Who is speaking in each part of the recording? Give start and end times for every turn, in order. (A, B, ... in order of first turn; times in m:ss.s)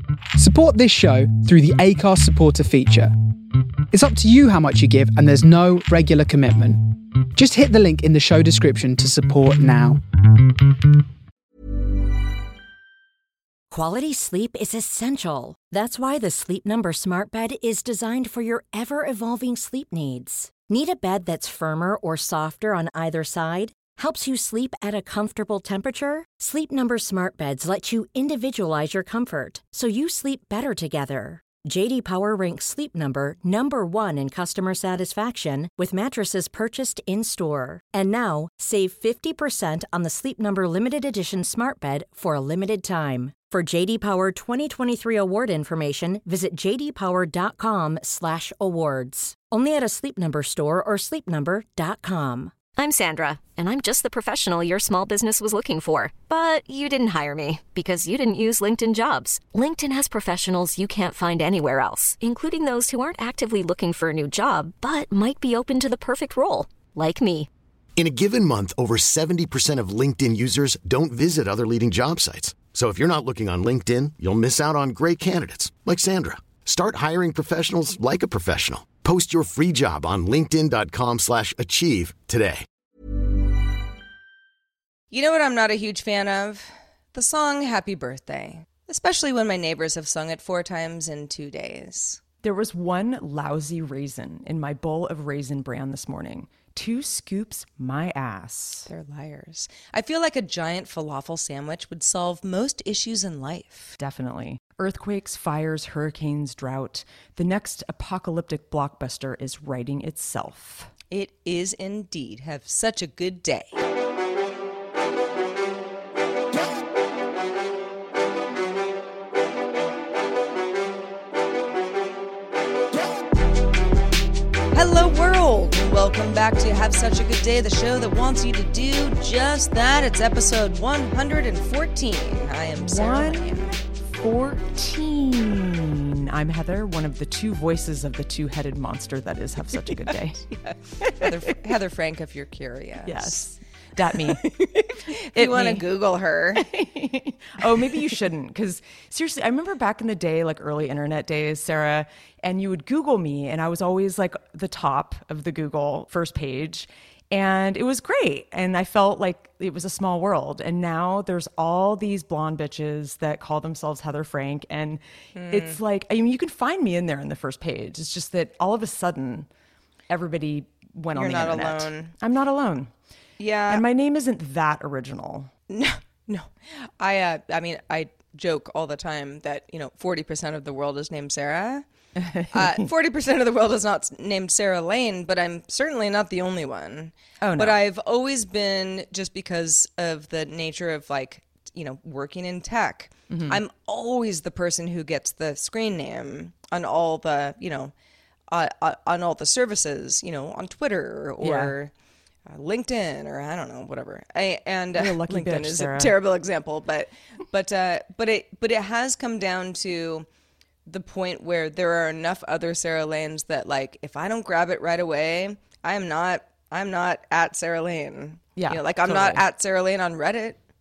0:00.3-0:03.1 A
0:03.9-0:10.0 A
0:13.7-0:52.5 B
0:52.7-1:07.5 C
1:08.0-1:22.6 D
1:25.1-1:32.2 E
1:32.4-1:38.9 F
1:38.9-1:44.0 E
1:44.0-1:50.9 F
1:51.1-1:53.8 E
2:04.7-2:13.8 E
2:12.7-2:21.5 F
2:20.7-2:23.5 E
2:23.0-2:24.5 F
2:24.1-2:26.7 E
2:25.3-2:25.8 F
2:26.6-2:49.5 F
2:45.3-2:45.8 E
2:50.1-2:52.9 F
2:51.1-2:52.1 E
2:53.4-2:53.8 E
2:53.7-2:55.5 F
2:55.7-3:01.8 E
3:02.2-3:02.9 F
3:02.5-3:17.9 E
3:07.4-3:07.8 F
3:13.3-3:13.6 F
3:18.5-3:21.9 E
3:21.4-3:21.7 F
3:22.5-3:30.3 E
3:25.0-3:26.1 F
3:30.8-3:40.6 E
3:38.6-3:39.4 F